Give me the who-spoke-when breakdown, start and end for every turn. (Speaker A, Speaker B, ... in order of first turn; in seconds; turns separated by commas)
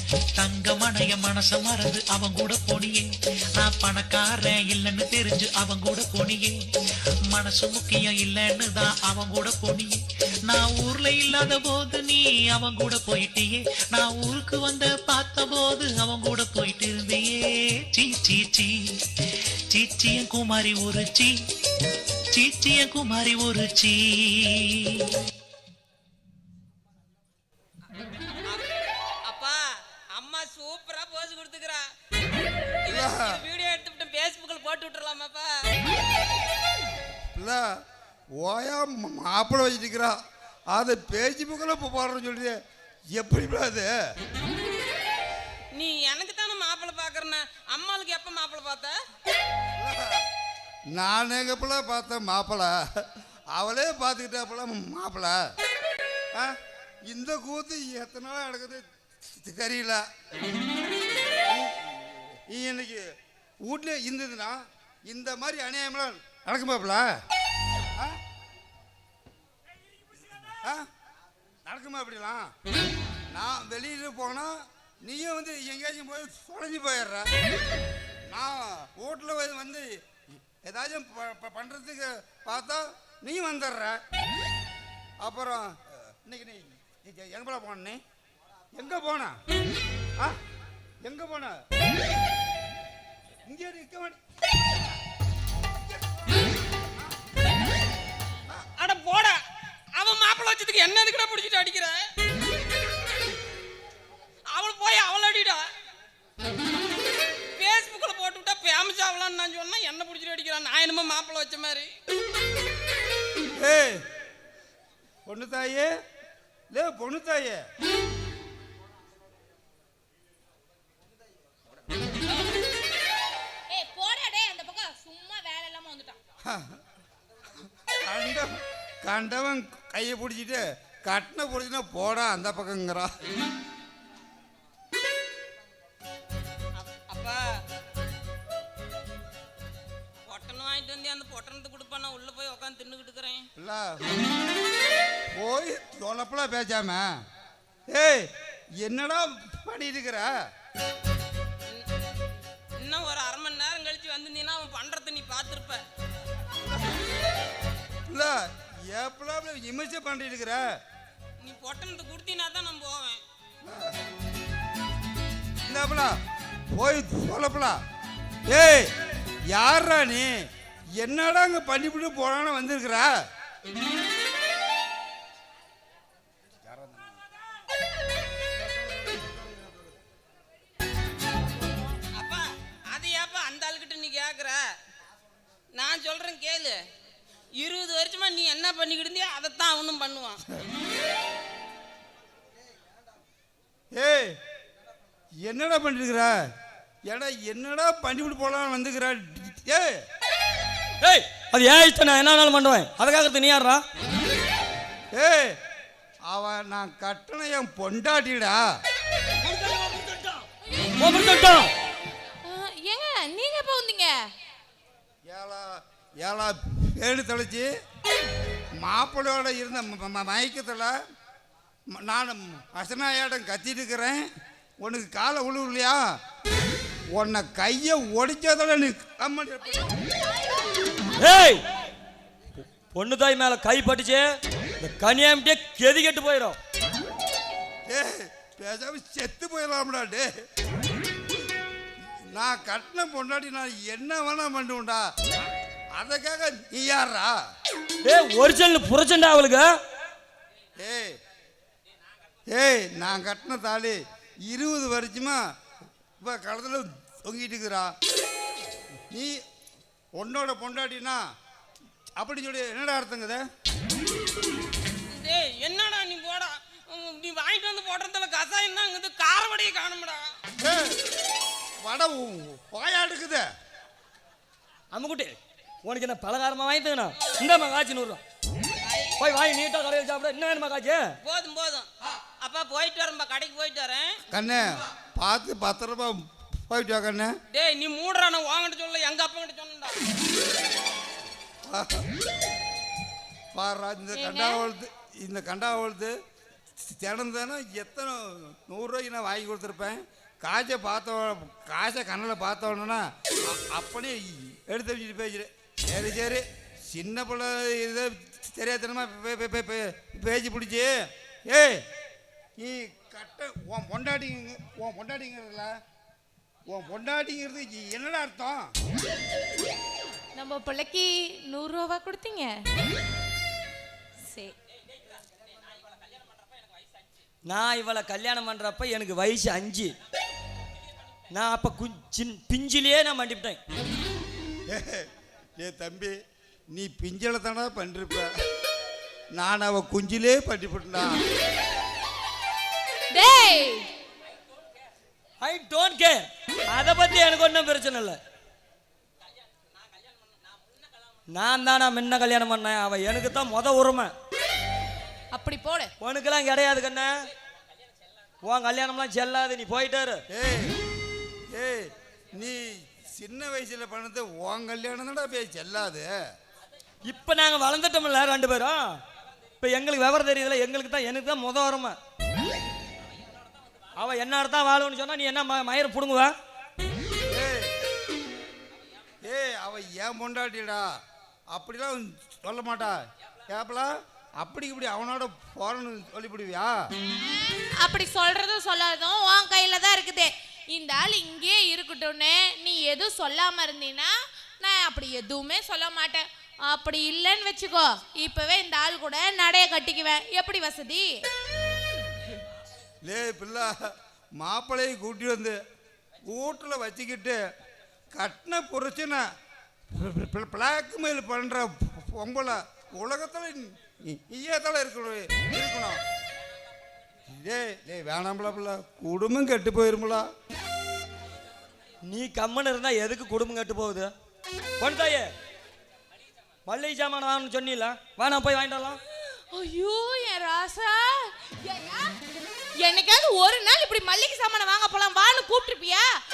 Speaker A: 0.4-6.6, Speaker A: 7.3-17.4, Speaker A: 17.9-18.7, Speaker A: 19.7-21.3, Speaker A: 22.3-25.1, Speaker B: 28.4-28.7, Speaker B: 29.2-29.6, Speaker B: 30.1-31.8, Speaker B: 32.8-35.5, Speaker C: 32.9-33.2, Speaker C: 37.3-37.6, Speaker C: 38.4-40.1, Speaker C: 40.7-42.5, Speaker C: 43.1-43.9, Speaker B: 45.7-48.9, Speaker C: 49.8-50.2, Speaker C: 50.9-52.7, Speaker C: 53.5-55.4, Speaker C: 57.0-60.0, Speaker C: 61.5-63.0, Speaker C: 63.6-67.1, Speaker C: 71.7-72.5, Speaker C: 73.3-77.3, Speaker C: 78.3-84.0, Speaker C: 85.2-88.0, Speaker C: 88.7-89.4, Speaker C: 91.0-91.5, Speaker C: 93.5-94.2, Speaker B: 98.8-99.4, Speaker B: 100.0-102.0, Speaker B: 104.5-105.6, Speaker B: 107.6-111.9, Speaker C: 113.6-114.0, Speaker C: 115.2-115.9, Speaker C: 116.7-117.6, Speaker D: 123.7-126.2, Speaker C: 126.4-126.8, Speaker C: 128.0-128.5, Speaker C: 129.0-133.1, Speaker B: 136.8-137.4, Speaker B: 140.3-143.4, Speaker C: 143.6-144.1, Speaker C: 145.3-147.1, Speaker C: 147.9-148.3, Speaker C: 148.8-150.3, Speaker B: 152.8-155.8, Speaker C: 158.1-160.6, Speaker B: 161.4-163.2, Speaker C: 163.6-163.9, Speaker C: 165.6-166.1, Speaker C: 166.7-167.8, Speaker C: 168.5-168.9, Speaker C: 169.5-170.3, Speaker C: 171.0-173.1, Speaker C: 176.7-177.0, Speaker B: 182.1-184.6, Speaker B: 185.7-186.8, Speaker B: 187.6-190.4, Speaker C: 193.9-194.3, Speaker C: 195.4-196.4, Speaker C: 197.1-199.9, Speaker E: 201.0-203.8, Speaker C: 205.1-205.5, Speaker C: 206.3-208.6, Speaker E: 209.4-211.7, Speaker D: 212.4-214.3, Speaker C: 215.2-215.6, Speaker C: 216.2-217.7, Speaker C: 218.8-220.9, Speaker C: 221.9-224.2, Speaker C: 224.8-226.0, Speaker C: 227.1-229.9, Speaker E: 231.2-231.6, Speaker E: 232.9-234.2, Speaker E: 234.8-236.6, Speaker C: 237.9-240.3, Speaker C: 242.3-245.0, Speaker C: 246.0-247.3, Speaker E: 248.0-249.7, Speaker C: 250.8-251.2, Speaker C: 252.5-255.4, Speaker C: 256.2-257.9, Speaker C: 259.1-259.4, Speaker C: 260.1-261.2, Speaker C: 262.2-263.4, Speaker B: 265.1-270.2, Speaker C: 270.6-271.0, Speaker C: 271.8-273.4, Speaker E: 274.9-278.2, Speaker B: 278.8-279.2, Speaker E: 279.2-281.1, Speaker B: 281.2-281.9, Speaker B: 282.4-284.1, Speaker C: 284.3-287.3, Speaker B: 287.5-290.0, Speaker C: 291.7-292.1, Speaker C: 293.5-296.1, Speaker D: 294.1-294.6, Speaker C: 296.8-310.9, Speaker C: 311.5-311.8, Speaker C: 312.6-315.8, Speaker C: 316.7-318.7, Speaker D: 320.3-322.6, Speaker D: 324.2-324.5, Speaker E: 327.4-329.9, Speaker E: 331.3-333.6, Speaker C: 334.7-335.1, Speaker C: 335.6-336.1, Speaker C: 336.7-338.3, Speaker C: 339.3-341.1, Speaker D: 343.1-343.9, Speaker E: 345.4-348.2, Speaker E: 351.3-354.1, Speaker D: 355.3-355.9, Speaker E: 356.0-357.1, Speaker E: 358.4-360.2, Speaker C: 360.3-360.8, Speaker C: 361.5-366.1, Speaker E: 367.0-369.0, Speaker E: 369.6-372.0, Speaker E: 374.0-376.3, Speaker C: 377.3-377.7, Speaker C: 379.2-380.8, Speaker C: 381.5-386.7, Speaker D: 387.8-401.2, Speaker C: 403.0-403.8, Speaker C: 404.4-405.6, Speaker C: 406.3-407.4, Speaker C: 408.1-409.2, Speaker C: 409.9-416.0, Speaker C: 417.3-420.3, Speaker E: 422.0-424.1, Speaker E: 424.8-425.3, Speaker E: 426.6-429.0, Speaker D: 429.5-432.2, Speaker D: 432.8-436.2